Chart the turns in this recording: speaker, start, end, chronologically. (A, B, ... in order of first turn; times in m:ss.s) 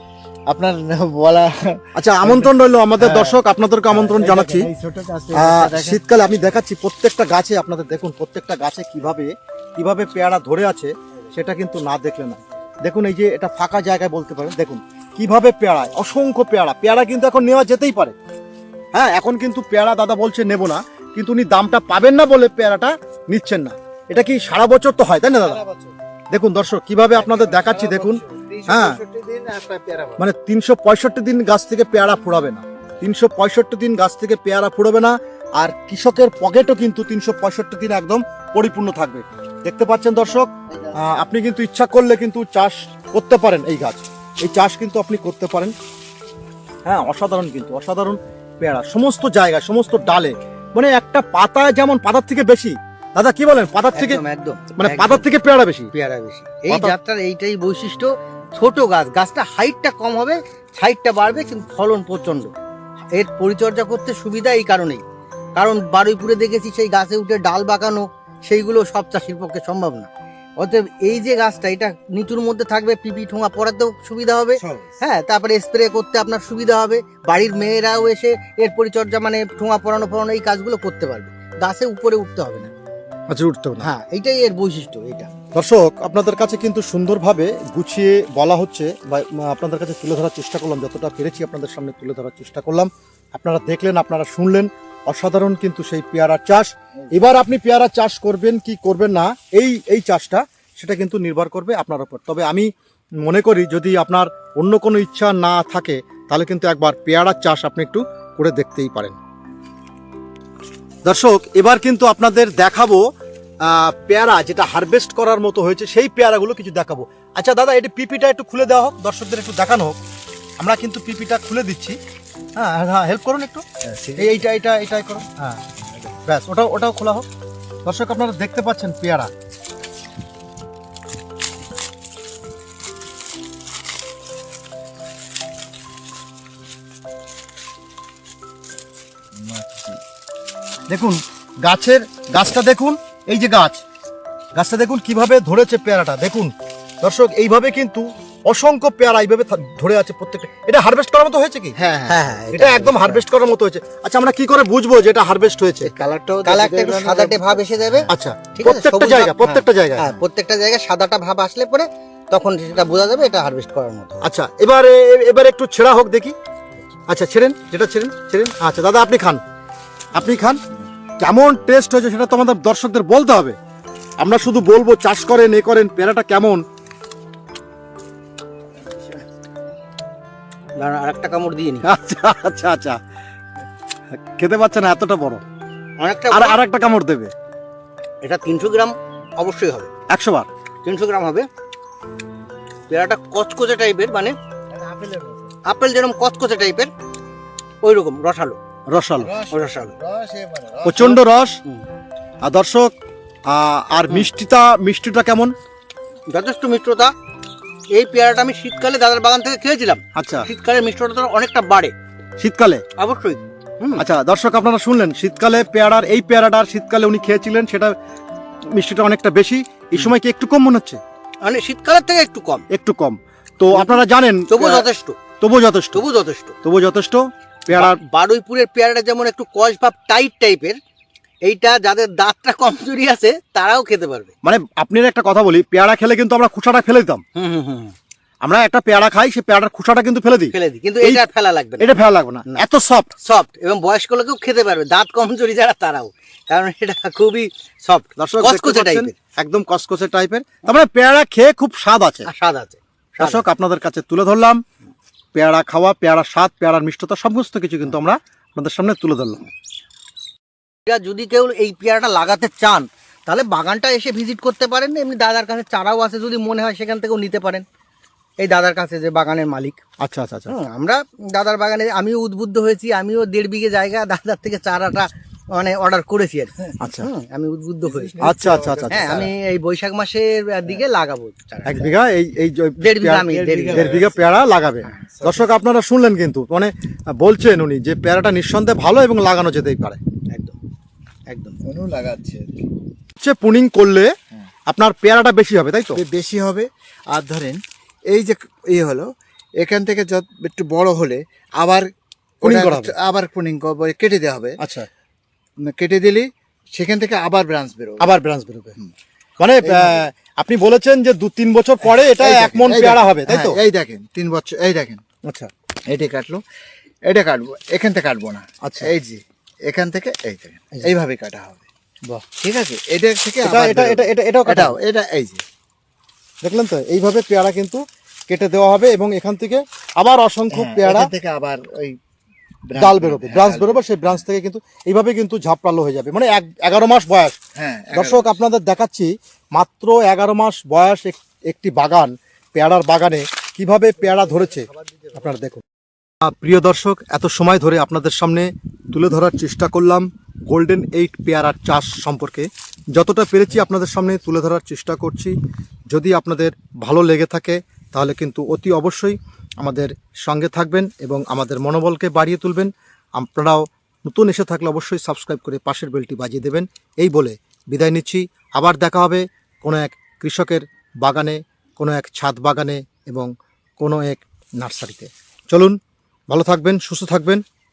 0:00.5-0:06.0 A
0:02.0-0:04.7 B
0:05.3-0:18.2 B
0:18.9-0:25.6 B
0:25.3-0:26.0 A
0:26.3-0:29.0 B
0:27.1-0:30.3 A
0:30.2-0:45.7 B
0:40.7-0:41.2 A
0:46.8-0:54.2 B
0:53.9-0:55.3 C
0:54.8-0:55.9 B
0:55.9-1:02.5 C
0:56.7-0:57.0 B
1:03.1-1:05.0 C
1:05.6-1:22.7 C
1:14.6-1:15.0 A
1:23.3-1:23.9 B
1:23.8-1:25.3 C
1:25.5-1:42.7 B
1:43.2-1:49.2 B
1:51.0-1:53.0 B
1:53.6-2:00.0 B
2:00.6-2:02.0 B
2:02.6-2:03.6 B
2:03.8-2:04.4 A
2:04.2-2:05.6 B
2:06.2-2:07.3 B
2:07.8-2:09.3 B
2:19.4-2:20.0 A
2:20.9-2:23.8 B
2:24.6-2:31.8 B
2:31.8-2:33.2 A
2:32.1-2:33.0 C
2:32.5-2:35.9 B
2:35.8-2:38.1 A
2:36.4-2:44.3 C
2:38.1-2:40.1 B
2:44.2-2:46.4 B
2:47.1-2:49.4 B
2:50.1-2:50.6 B
2:51.2-2:53.6 B
2:54.2-2:56.6 B
3:00.8-3:01.9 C
3:01.8-3:03.0 B
3:04.1-3:05.4 B
3:06.0-3:06.6 C
3:06.3-3:07.3 B
3:08.2-3:09.9 C
3:10.1-3:10.5 B
3:10.8-3:11.5 C
3:12.9-3:14.4 C
3:14.7-3:15.5 A
3:15.6-3:16.9 C
3:17.8-3:18.6 C
3:18.9-3:19.3 B
3:19.2-3:21.2 A
3:19.5-3:19.9 C
3:20.8-3:21.6 B
3:21.0-3:21.8 C
3:22.4-3:22.9 B
3:23.5-3:25.5 B
3:26.3-3:27.1 C
3:27.9-3:31.9 C
3:30.2-3:30.5 B
3:32.4-3:32.8 B
3:33.0-3:34.0 C
3:34.0-3:37.9 B
3:38.7-3:41.0 B
3:41.4-3:42.6 C
3:42.7-3:44.9 B
3:43.7-3:45.2 C
3:45.4-3:46.0 B
3:45.9-3:46.6 C
3:46.6-3:48.0 B
3:47.7-3:50.8 C
3:51.4-3:54.3 C
3:54.4-3:57.2 B
3:57.4-3:57.9 C
3:58.4-4:01.2 B
4:00.5-4:01.9 C
4:01.8-4:03.1 B
4:03.2-4:09.2 C
4:08.2-4:12.3 B
4:12.3-4:13.4 C
4:13.2-4:14.6 B
4:15.4-4:19.5 B
4:20.9-4:27.6 C
4:28.4-4:29.8 C
4:30.0-4:30.5 B
4:30.5-4:38.1 C
4:36.8-4:37.1 B
4:37.8-4:39.3 A
4:38.2-4:39.3 B
4:38.9-4:41.9 C
4:41.6-4:50.0 B
4:42.8-4:44.0 C
4:43.3-4:44.2 A
4:44.8-4:45.6 A
4:50.3-4:50.6 C
4:51.3-4:51.6 C
4:51.6-4:52.7 A
4:53.2-4:54.1 B
4:54.7-4:56.0 B
4:55.9-5:01.9 A
5:02.4-5:04.6 A
5:02.4-5:02.9 B
5:04.6-5:04.9 B
5:05.6-5:08.1 A
5:08.0-5:08.8 B
5:09.4-5:13.6 B
5:09.6-5:10.0 A
5:12.0-5:15.0 A
5:15.2-5:15.5 B
5:15.9-5:16.4 A
5:17.1-5:21.7 A
5:18.6-5:18.9 B
5:22.3-5:25.4 A
5:23.4-5:24.8 B
5:26.4-5:31.1 B
5:30.5-5:32.0 A
5:32.7-5:34.2 A
5:32.8-5:37.4 B
5:37.6-5:38.4 A
5:37.9-5:45.6 B
5:46.2-5:55.4 B
5:55.9-6:15.8 B
6:16.3-6:17.4 B